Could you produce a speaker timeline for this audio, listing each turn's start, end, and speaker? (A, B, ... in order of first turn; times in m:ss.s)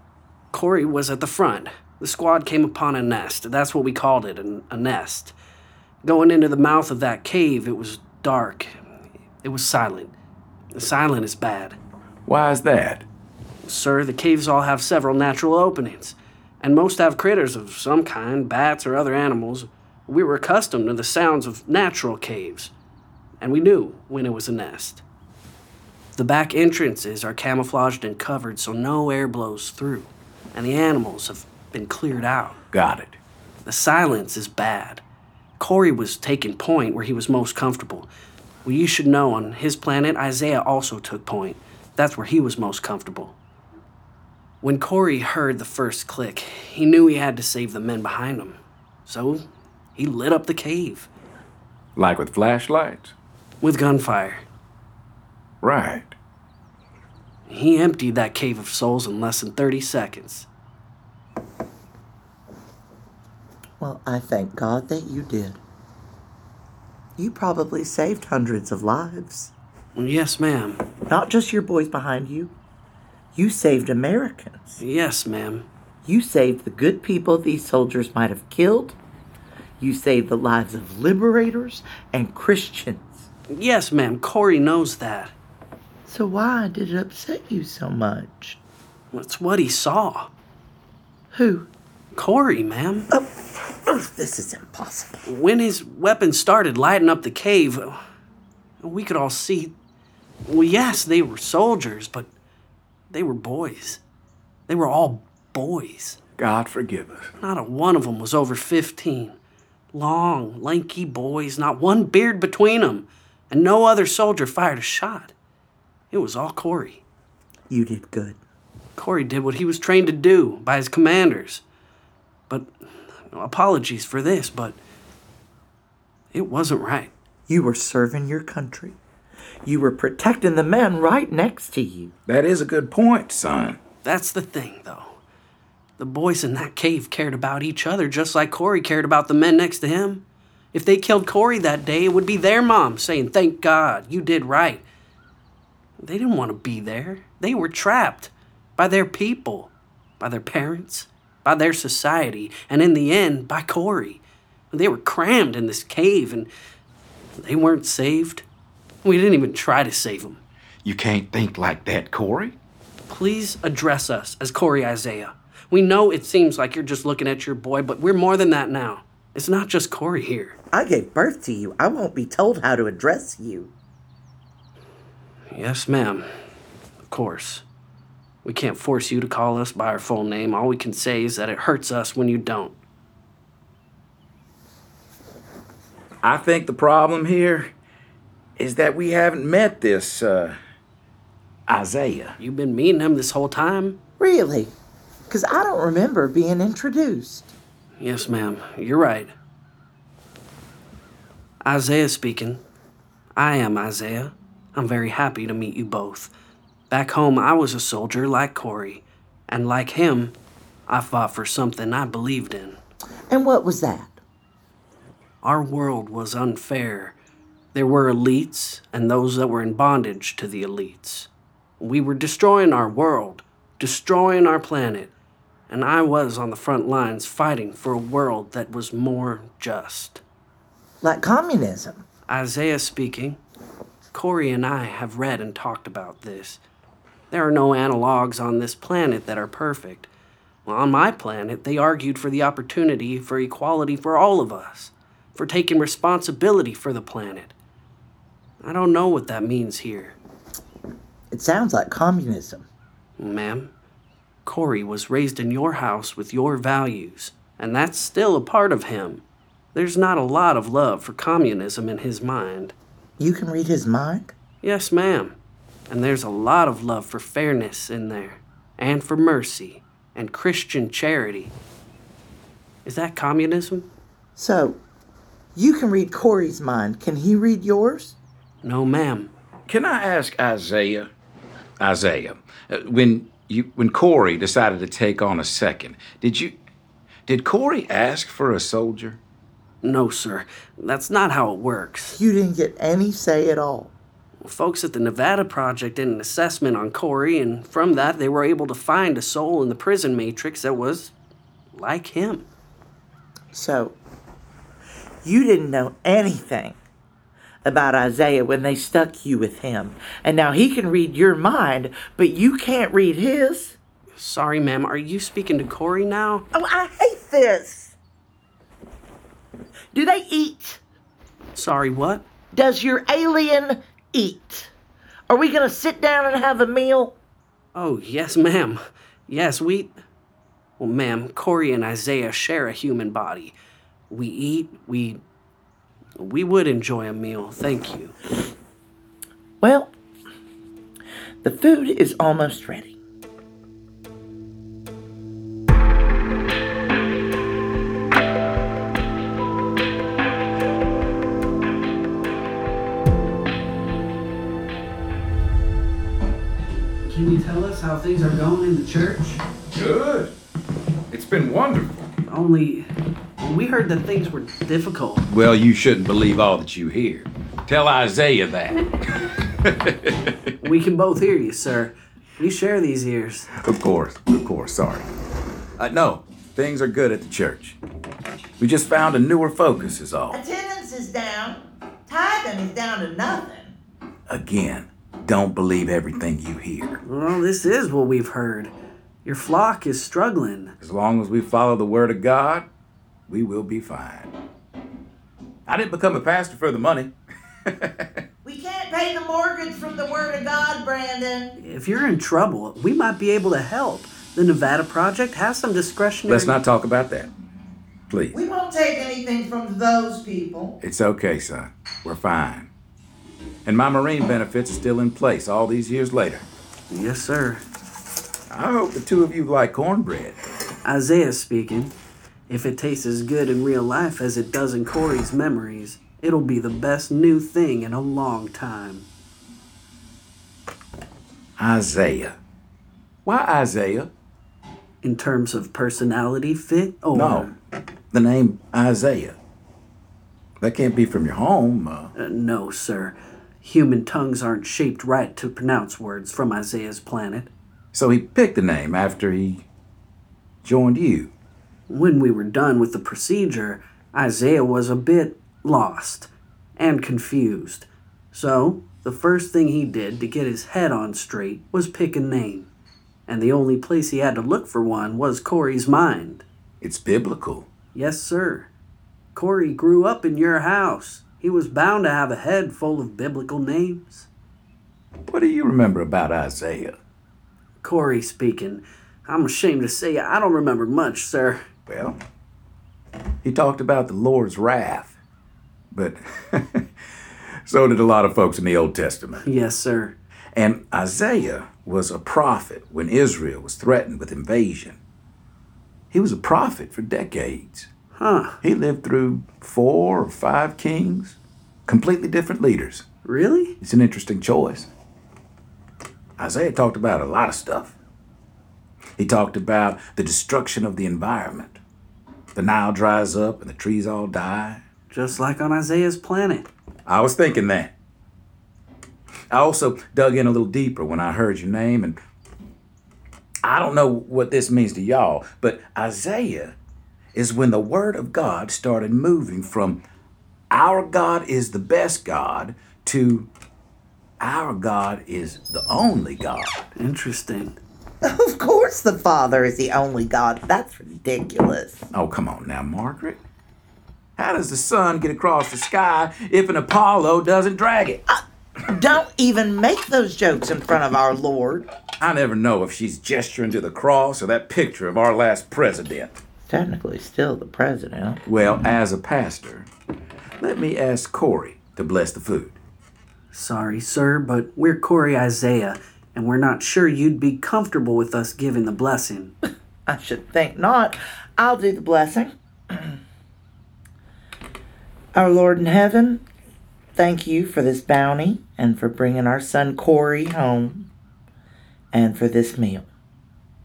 0:00.5-0:05.3 A
0:06.0-0:08.7 A
0:09.4-0:10.1 A
0:10.7-0:11.8 A
0:12.2-0:13.0 B
0:13.6-0:22.7 A
0:23.4-0:25.0 A
0:26.2-0:32.6 A
0:32.7-0:33.2 B
0:33.6-0:35.0 A
0:35.6-0:38.1 A
0:38.6-0:43.4 A
0:44.6-0:51.1 A
0:52.0-0:53.1 B
0:53.6-0:54.4 A
0:55.6-0:56.1 B
0:57.5-1:00.5 A
1:03.8-1:05.6 C
1:07.2-1:09.5 C
1:10.0-1:10.8 A
1:11.1-1:12.5 C
1:13.3-1:14.8 C
1:14.8-1:15.6 A
1:16.0-1:19.0 C
1:19.8-1:23.2 C
1:23.5-1:25.3 A
1:26.1-1:28.6 C
1:29.1-1:30.3 A
1:31.3-1:31.7 C
1:32.1-1:33.1 A
1:33.1-1:35.2 C
1:35.2-1:38.0 A
1:38.8-1:39.7 A
1:40.5-1:42.3 A
1:43.1-1:44.0 A
1:44.7-1:46.2 A
1:46.4-1:47.3 B
1:47.4-1:49.4 A
1:49.9-1:55.3 A
1:56.1-1:57.0 A
1:57.7-1:58.4 C
1:59.0-2:01.6 A
2:03.3-2:04.8 A
2:06.3-2:07.1 A
2:07.5-2:09.0 C
2:09.6-2:12.1 C
2:12.3-2:13.8 B
2:14.0-2:15.2 A
2:16.0-2:20.2 A
2:20.7-2:24.8 A
2:26.0-2:36.5 A
2:37.4-2:38.4 A
2:39.0-2:40.4 A
2:40.8-2:42.6 B
2:43.1-2:50.6 A
2:50.7-2:53.7 C
2:55.5-2:56.2 A
2:57.1-2:57.6 A
2:58.4-3:02.7 A
3:06.2-3:07.7 B
3:08.6-3:10.6 B
3:11.7-3:12.4 B
3:12.4-3:14.0 A
3:14.2-3:14.7 C
3:15.3-3:17.5 C
3:18.0-3:19.3 A
3:21.6-3:22.6 A
3:23.4-3:26.3 A
3:26.9-3:30.3 A
3:30.9-3:32.8 A
3:33.3-3:34.2 C
3:35.4-3:37.1 A
3:37.7-3:45.1 A
3:45.7-3:50.2 A
3:51.0-3:52.0 C
3:52.3-3:53.4 A
3:54.1-3:56.6 A
3:57.3-4:00.1 A
4:00.6-4:07.5 A
4:08.6-4:10.2 A
4:11.3-4:12.6 C
4:13.2-4:13.7 A
4:14.4-4:19.2 A
4:19.7-4:22.7 A
4:23.2-4:24.3 C
4:24.6-4:25.4 A
4:25.9-4:31.5 A
4:32.8-4:33.9 A
4:34.4-4:34.8 C
4:35.5-4:38.2 C
4:38.6-4:39.3 A
4:39.7-4:41.1 B
4:41.8-4:46.5 B
4:47.3-4:49.2 B
4:49.8-4:52.2 A
4:52.1-4:53.9 C
4:54.4-5:01.1 A
5:01.7-5:02.5 A
5:03.5-5:04.0 C
5:05.2-5:06.8 C
5:07.6-5:13.8 C
5:14.2-5:16.4 A
5:16.5-5:18.0 C
5:19.9-5:20.8 C
5:21.5-5:22.2 A
5:22.5-5:24.7 C
5:25.3-5:27.1 C
5:27.8-5:30.0 A
5:30.8-5:33.5 A
5:34.1-5:35.2 A
5:36.2-5:38.1 A
5:39.6-5:39.9 C
5:41.4-5:43.0 C
5:57.0-5:59.4 A
5:59.7-6:00.3 B
6:01.1-6:02.1 B
6:02.3-6:02.9 A
6:03.4-6:05.2 A
6:05.3-6:08.9 B
6:09.6-6:10.4 B
6:10.6-6:13.5 A
6:13.6-6:15.1 B
6:15.8-6:17.8 B
6:18.6-6:20.4 B
6:20.3-6:23.8 C
6:24.3-6:27.0 B
6:27.0-6:28.7 A
6:29.2-6:30.7 A
6:30.8-6:32.7 B
6:33.3-6:34.3 B
6:35.7-6:37.1 B
6:37.7-6:38.1 B
6:38.4-6:41.5 C
6:41.6-6:46.6 A
6:46.3-6:47.3 B
6:48.1-6:48.4 B
6:48.3-6:50.8 C
6:50.8-6:52.7 B
6:53.6-6:56.5 B
6:56.9-6:57.6 A
6:58.5-7:00.4 B
7:00.8-7:01.9 A
7:02.5-7:09.0 A
7:11.6-7:12.4 B
7:13.2-7:14.1 B
7:15.0-7:17.5 A
7:17.1-7:17.5 B
7:18.1-7:19.4 B
7:20.6-7:22.1 B
7:22.1-7:27.5 A
7:27.9-7:29.6 B
7:30.6-7:31.3 B
7:31.9-7:42.7 A
7:43.3-7:46.4 A
7:46.8-7:47.7 B
7:47.9-7:48.7 A
7:49.4-7:54.3 A
7:55.3-7:57.0 B
7:57.8-8:01.6 A
8:01.9-8:02.2 B
8:03.4-8:05.2 B
8:05.9-8:06.8 B
8:07.6-8:09.4 B
8:09.4-8:10.2 A
8:10.5-8:15.0 B
8:16.1-8:17.9 B
8:18.2-8:18.6 A
8:18.6-8:21.4 B
8:21.9-8:23.0 B
8:23.2-8:23.8 A
8:23.8-8:24.9 B
8:26.4-8:27.9 B
8:29.2-8:31.8 B
8:32.6-8:34.8 B
8:35.1-8:36.7 A
8:37.0-8:37.9 B
8:39.5-8:42.2 B
8:43.6-8:46.8 B
8:47.3-8:50.0 B
8:50.7-8:53.5 B
8:54.4-8:56.8 B
8:57.0-8:57.8 A
8:58.2-9:02.0 C
9:02.1-9:03.4 B
9:04.4-9:08.2 B
9:08.3-9:11.9 C
9:12.2-9:16.4 B
9:16.7-9:18.4 C
9:18.5-9:19.9 B
9:20.6-9:22.8 B
9:23.5-9:29.5 A
9:30.1-9:33.2 C
9:35.4-9:36.4 C
9:37.1-9:41.1 C
9:42.1-9:43.0 C